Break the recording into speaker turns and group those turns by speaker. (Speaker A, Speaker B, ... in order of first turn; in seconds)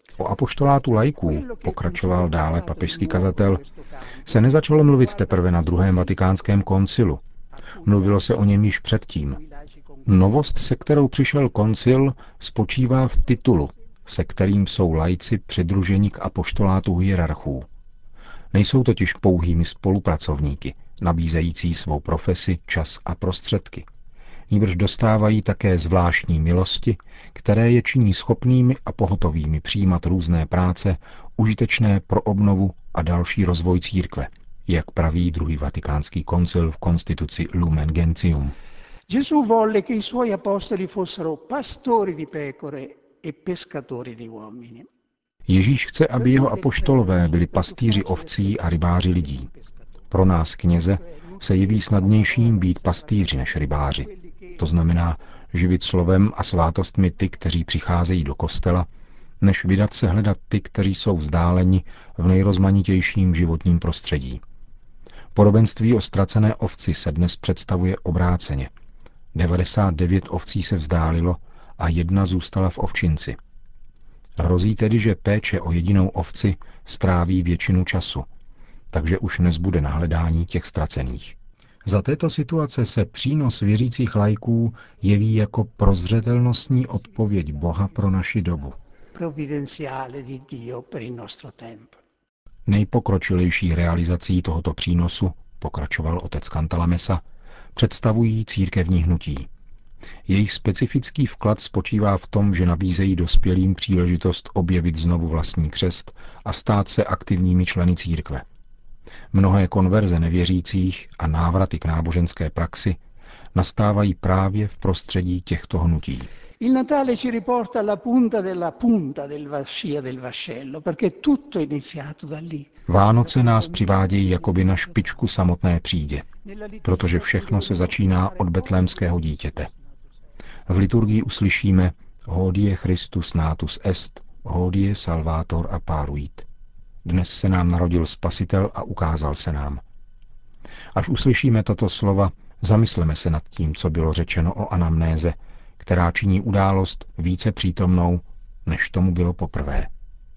Speaker A: 0.2-3.6, 4.2-7.2, 7.8-9.4, 10.1-17.7, 18.5-23.9, 24.5-38.5, 45.5-49.5, 50.1-58.9, 59.4-64.4, 65.3-68.7, 69.3-73.4, 74.4-78.3, 78.9-88.8, 92.7-97.2, 97.8-99.5, 100.3-108.5, 109.3-113.0, 113.5-116.3, 122.9-126.3, 126.8-129.7, 130.7-136.5, 137.0-139.8, 140.9-149.9
Speaker B: 1.2-6.3, 7.7-8.6, 9.3-10.1, 39.1-44.9, 46.1-49.7, 50.9-54.6, 87.0-88.0, 89.1-92.0, 116.6-122.7, 123.2-125.0, 126.4-129.8